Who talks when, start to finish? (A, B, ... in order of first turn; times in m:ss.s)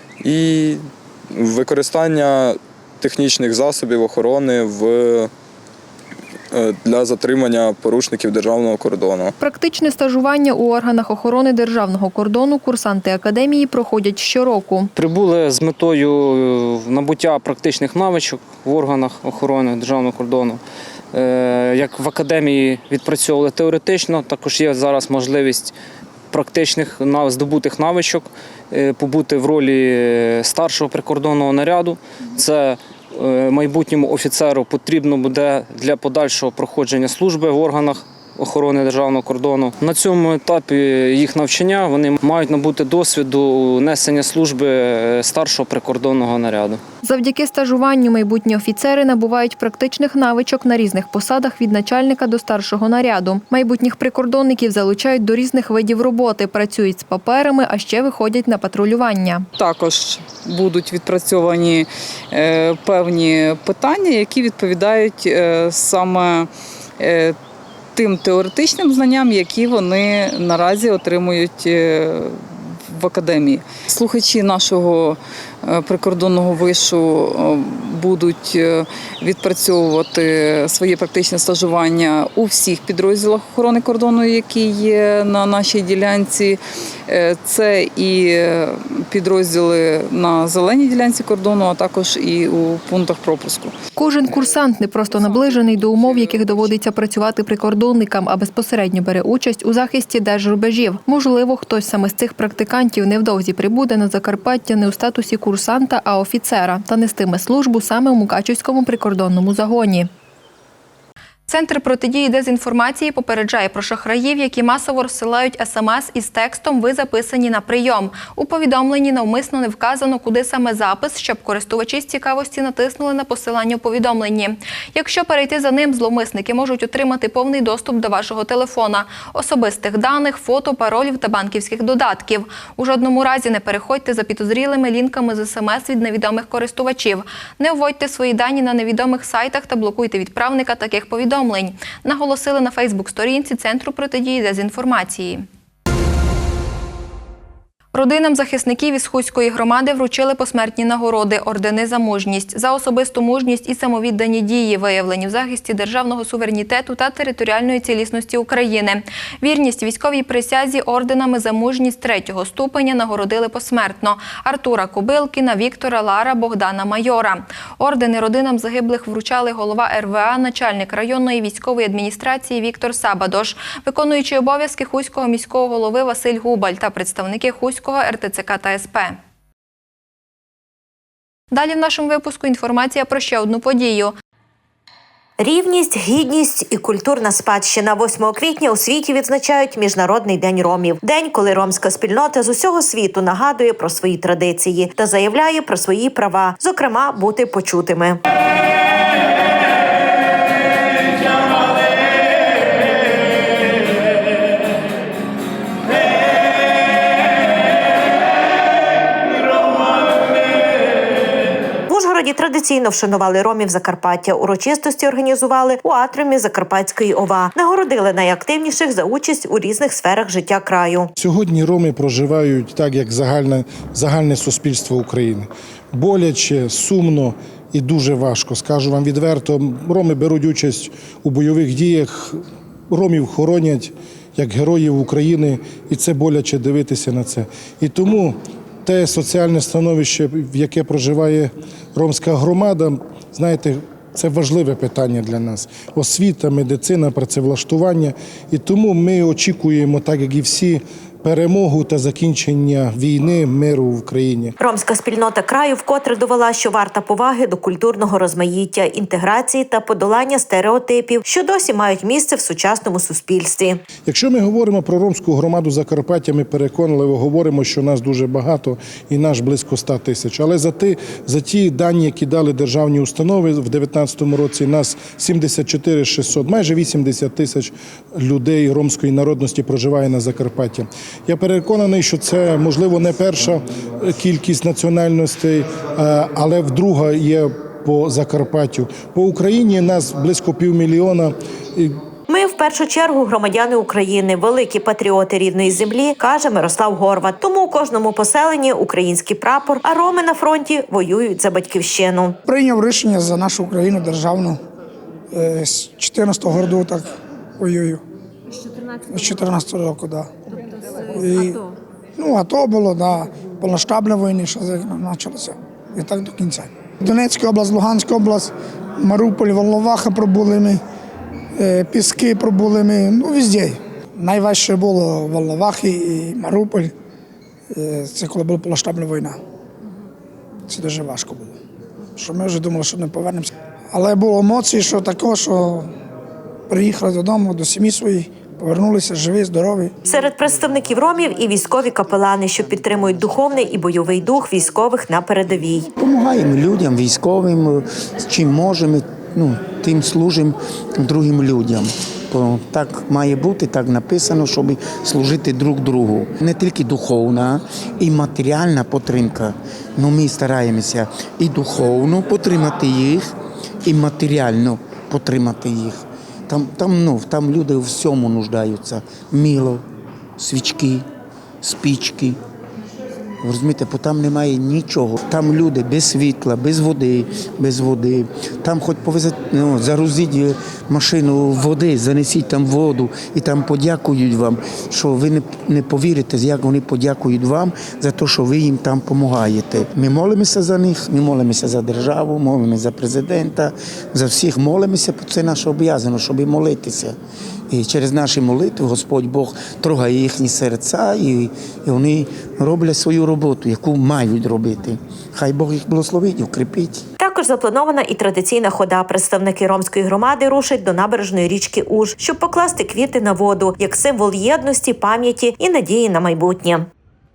0:00.2-0:05.3 A
0:06.5-0:09.3 A
0:09.4-0:14.9 B
0:15.0-0:20.6 C
0:21.1-0:25.7 C
0:26.3-0:46.8 C
0:47.0-0:59.5 B
0:59.6-1:07.4 D
1:07.9-1:33.7 D
1:34.0-1:50.1 B
1:51.5-2:25.4 B
2:27.9-2:59.2 B
3:01.5-3:04.1 B
3:05.4-3:18.2 E
3:31.9-3:41.1 E
3:41.2-4:14.5 F
4:14.6-4:23.8 E
4:24.0-4:52.0 F
4:52.3-5:02.4 E
5:02.5-5:04.6 G
5:05.3-5:08.0 G
5:09.0-5:10.3 G
5:11.1-5:11.6 G
5:12.2-5:20.8 G
5:21.6-5:26.9 G
5:27.7-5:29.4 G
5:30.7-5:31.6 G
5:32.2-5:35.9 G
5:36.7-5:39.9 G
5:40.0-5:45.9 E
5:46.0-6:03.3 H
6:03.8-6:09.8 H
6:10.4-6:11.1 H
6:11.6-6:12.4 H
6:13.4-6:37.2 H
6:37.7-6:47.1 H
6:47.2-6:56.9 E